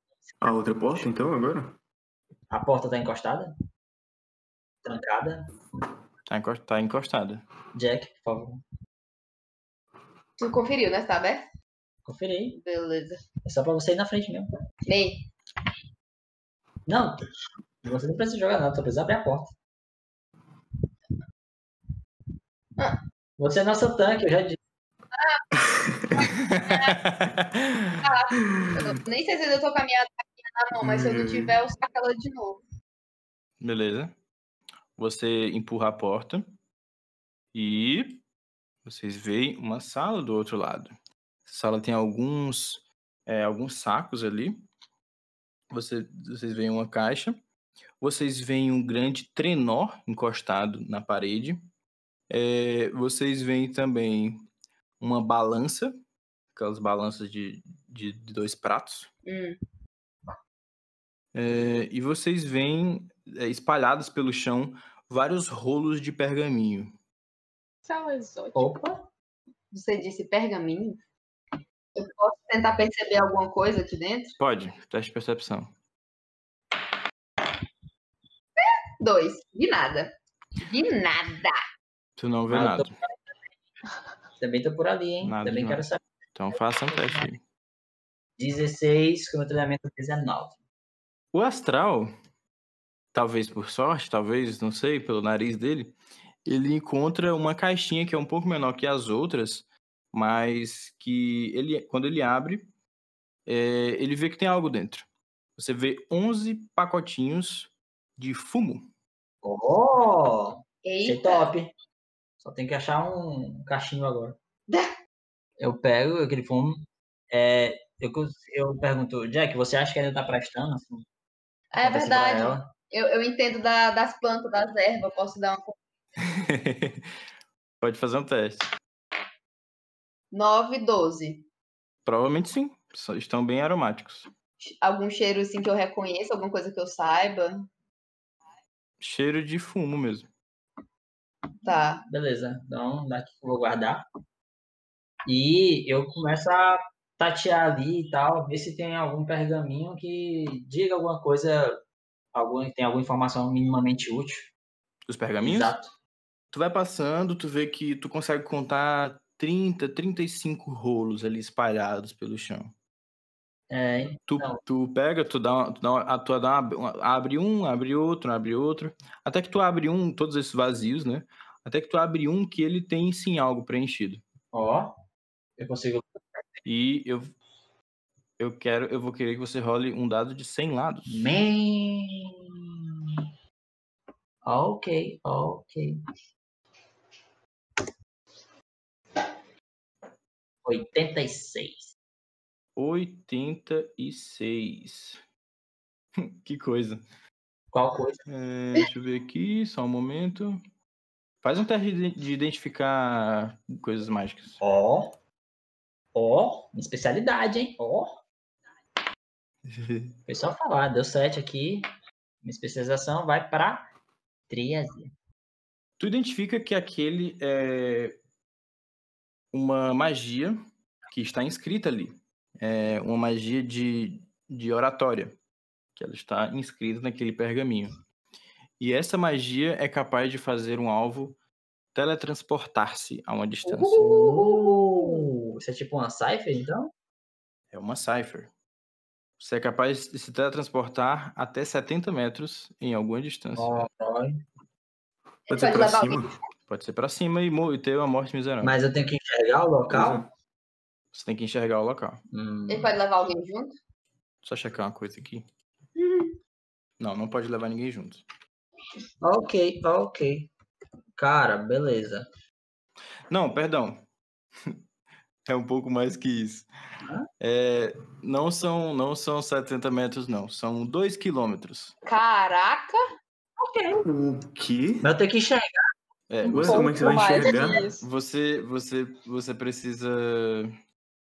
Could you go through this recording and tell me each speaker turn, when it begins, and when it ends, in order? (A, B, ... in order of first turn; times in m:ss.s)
0:00.4-0:01.8 A
0:02.5-0:03.5 B
0:04.8-0:05.5 B
0:06.3-0:07.4 C
0:07.7-0:08.6 B
0:10.4-0:11.4 D
0:12.0-0:12.6 B
0:12.5-0:13.2 D
0:13.4-0:14.5 B
0:14.8-0:15.2 D
0:16.8-0:17.3 B
0:17.8-0:19.5 B
0:23.4-0:24.6 B
0:25.1-0:25.4 D
0:25.6-0:26.1 A
0:26.2-0:27.0 D
0:26.3-0:28.0 C
0:28.0-0:32.6 D
0:30.8-0:31.6 A
0:33.6-0:34.1 C
0:35.0-0:36.5 C
0:37.5-0:38.2 C
0:38.8-0:40.9 C
0:41.4-0:44.6 C
0:45.7-0:47.4 C
0:48.0-0:51.6 C
0:52.3-0:54.4 C
0:55.0-0:55.9 C
0:56.5-0:59.1 C
0:59.2-0:59.6 D
1:01.3-1:06.9 C
1:07.8-1:08.8 E
1:08.5-1:09.1 B
1:09.7-1:11.0 D
1:12.0-1:14.3 D
1:14.4-1:15.7 C
1:18.6-1:21.6 D
1:22.2-1:22.9 C
1:22.5-1:23.1 B
1:24.4-1:26.0 B
1:25.2-1:27.4 C
1:26.9-1:27.3 B
1:28.4-1:30.6 B
1:31.3-1:32.1 C
1:33.1-1:42.7 C
1:43.4-1:48.9 C
1:49.4-1:51.7 B
1:50.8-1:51.5 D
1:52.4-1:54.4 B
1:54.7-1:54.9 D
1:55.6-2:01.0 B
2:01.7-2:05.8 D
2:01.8-2:02.7 B
2:06.3-2:07.1 C
2:07.8-2:08.7 C
2:10.3-2:11.4 D
2:12.0-2:14.3 C
2:14.6-2:17.7 D
2:19.0-2:20.3 C
2:21.6-2:22.0 D
2:22.0-2:24.0 B
2:25.2-2:31.8 B
2:32.3-2:34.5 B
2:35.1-2:35.7 C
2:35.4-2:35.9 B
2:36.5-2:42.7 C
2:43.7-2:44.6 B
2:44.3-2:54.2 C
2:54.5-2:54.9 B
2:55.6-2:56.2 B
2:56.6-2:57.3 C
2:58.4-3:01.3 C
3:01.1-3:03.2 B
3:04.4-3:06.0 B
3:10.6-3:11.9 B
3:12.8-3:15.2 C
3:16.2-3:17.0 C
3:17.7-3:18.2 B
3:18.3-3:20.6 C
3:21.4-3:24.6 C
3:24.6-3:25.1 B
3:26.1-3:28.2 B
3:29.6-3:30.2 C
3:30.3-3:31.8 B
3:32.4-3:33.9 B
3:34.5-3:35.1 B
3:36.0-3:38.2 C
3:39.5-3:40.6 C
3:41.1-3:45.4 C
3:46.0-3:48.0 C
3:48.8-3:51.4 C
3:51.9-3:54.1 C
3:53.7-3:55.2 D
3:53.9-3:56.9 B
3:57.7-3:58.5 C
3:59.4-4:03.9 C
4:03.6-4:04.4 B
4:05.5-4:06.3 A
4:05.5-4:06.4 D
4:06.7-4:08.7 C
4:08.6-4:10.2 B
4:09.9-4:10.2 A
4:11.1-4:12.2 C
4:12.3-4:12.9 B
4:12.7-4:13.7 D
4:14.4-4:15.4 C
4:16.0-4:16.4 D
4:17.0-4:18.2 C
4:19.2-4:20.5 B
4:21.2-4:22.2 B
4:23.3-4:24.0 C
4:25.4-4:26.7 C
4:27.4-4:31.9 C
4:32.0-4:33.0 D
4:33.6-4:34.0 B
4:34.0-4:35.1 A
4:35.0-4:35.9 B
4:36.3-4:36.9 C
4:36.4-4:37.8 A
4:36.5-4:38.0 E
4:37.6-4:40.8 C